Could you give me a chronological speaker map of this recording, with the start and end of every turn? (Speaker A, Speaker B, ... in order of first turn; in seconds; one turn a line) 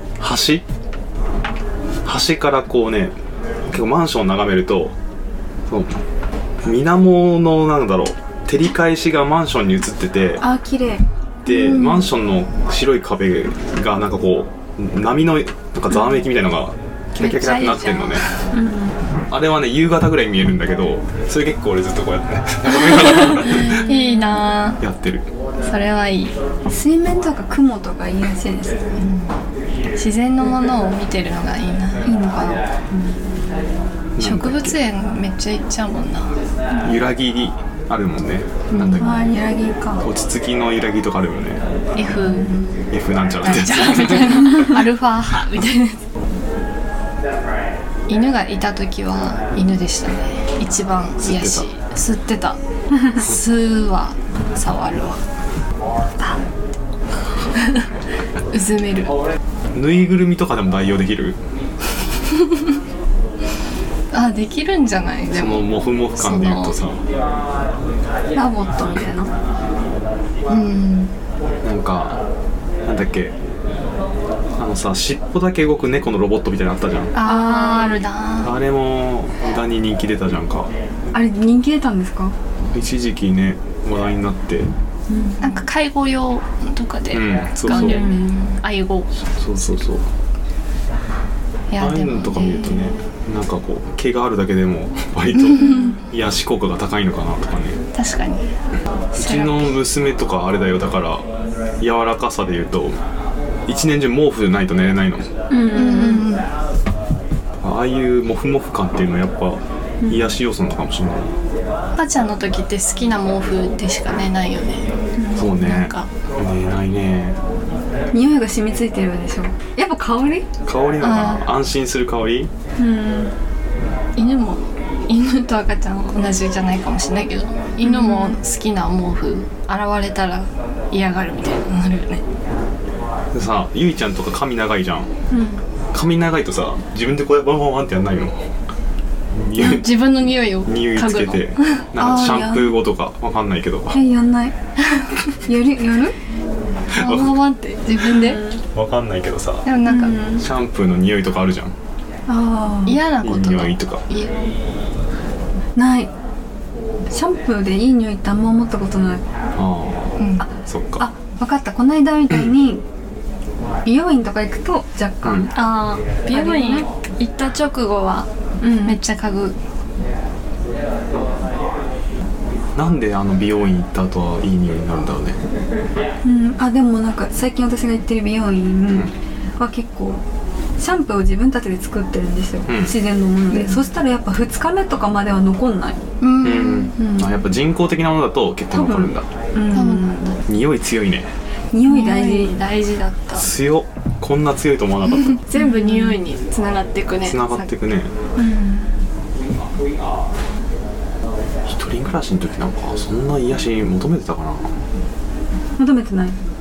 Speaker A: 0.2-0.6
Speaker A: 2.0-3.1
Speaker A: 3.7-4.9
Speaker A: 5.7-6.0
Speaker A: 6.6-10.4
Speaker B: 10.4-12.1
Speaker A: 11.4-18.2
Speaker C: 17.1-18.4
Speaker B: 18.5-19.0
Speaker A: 19.3-23.9
Speaker C: 23.2-24.8
Speaker B: 23.9-24.4
Speaker A: 24.8-25.3
Speaker C: 25.6-26.3
Speaker B: 26.7-28.9
Speaker C: 28.9-29.4
Speaker C: 29.9-32.1
Speaker B: 32.0-33.2
Speaker A: 34.2-34.8
Speaker C: 34.2-36.4
Speaker A: 36.8-39.3
Speaker C: 38.7-39.1
Speaker B: 38.9-40.0
Speaker A: 40.0-41.6
Speaker C: 42.0-42.5
Speaker B: 42.3-42.7
Speaker A: 42.9-44.4
Speaker C: 43.4-46.0
Speaker C: 48.1-52.6
Speaker A: 51.2-51.6
Speaker C: 53.1-55.2
Speaker C: 57.6-57.8
Speaker C: 58.5-59.1
Speaker A: 59.7-61.4
Speaker C: 64.1-66.8
Speaker A: 65.3-67.0
Speaker B: 68.3-69.3
Speaker C: 70.5-71.1
Speaker A: 71.6-72.2
Speaker A: 72.8-73.3
Speaker A: 74.6-77.1
Speaker C: 77.1-78.5
Speaker B: 77.2-78.0
Speaker A: 78.4-80.7
Speaker B: 81.1-82.3
Speaker A: 82.7-84.7
Speaker B: 85.1-85.5
Speaker C: 85.4-89.1
Speaker A: 87.1-88.1
Speaker B: 87.7-88.4
Speaker A: 89.4-90.0
Speaker C: 91.7-92.9
Speaker A: 91.8-97.8
Speaker C: 95.4-95.9
Speaker B: 95.6-96.0
Speaker C: 97.9-98.4
Speaker C: 99.1-99.8
Speaker A: 99.1-101.2
Speaker A: 101.8-103.0
Speaker A: 103.7-105.3
Speaker B: 105.5-106.3
Speaker C: 105.7-106.5
Speaker A: 107.6-111.3
Speaker B: 110.0-110.3
Speaker C: 112.0-114.9
Speaker B: 115.2-115.5
Speaker A: 115.3-117.4
Speaker C: 115.4-116.1
Speaker B: 118.1-120.5
Speaker A: 120.7-122.5
Speaker C: 121.0-121.4
Speaker B: 122.8-123.3
Speaker C: 124.2-132.2
Speaker B: 127.8-128.4
Speaker A: 133.3-135.1
Speaker B: 135.3-135.6
Speaker A: 135.9-138.5
Speaker A: 139.3-144.0
Speaker C: 139.6-141.8
Speaker B: 141.9-142.8
Speaker B: 143.9-144.5
Speaker C: 144.9-145.2
Speaker B: 145.4-146.1
Speaker A: 146.9-147.4
Speaker C: 146.9-148.4
Speaker B: 147.9-148.6
Speaker A: 148.7-149.7
Speaker C: 149.6-150.2
Speaker B: 149.8-150.4
Speaker A: 150.3-151.7
Speaker B: 152.3-153.0
Speaker C: 152.8-154.3
Speaker A: 153.2-154.0
Speaker B: 155.8-156.1
Speaker B: 157.1-159.2
Speaker A: 159.6-161.1
Speaker C: 160.2-160.4
Speaker B: 160.4-162.8
Speaker B: 163.8-166.9
Speaker A: 165.2-165.5
Speaker C: 165.5-169.6
Speaker B: 168.6-169.0
Speaker A: 172.8-175.4
Speaker B: 176.2-180.2
Speaker A: 178.9-179.1
Speaker B: 180.8-186.0
Speaker A: 182.7-182.9
Speaker C: 183.5-183.8
Speaker C: 186.2-187.0
Speaker A: 186.4-189.2
Speaker B: 186.9-187.4
Speaker B: 188.7-190.3
Speaker C: 189.7-190.4
Speaker A: 190.4-191.3
Speaker B: 191.7-192.6
Speaker C: 191.8-193.5
Speaker A: 193.4-195.4
Speaker C: 195.1-197.7
Speaker B: 195.5-196.2
Speaker A: 197.2-198.1
Speaker B: 198.4-198.8
Speaker A: 201.7-204.7
Speaker B: 205.8-206.3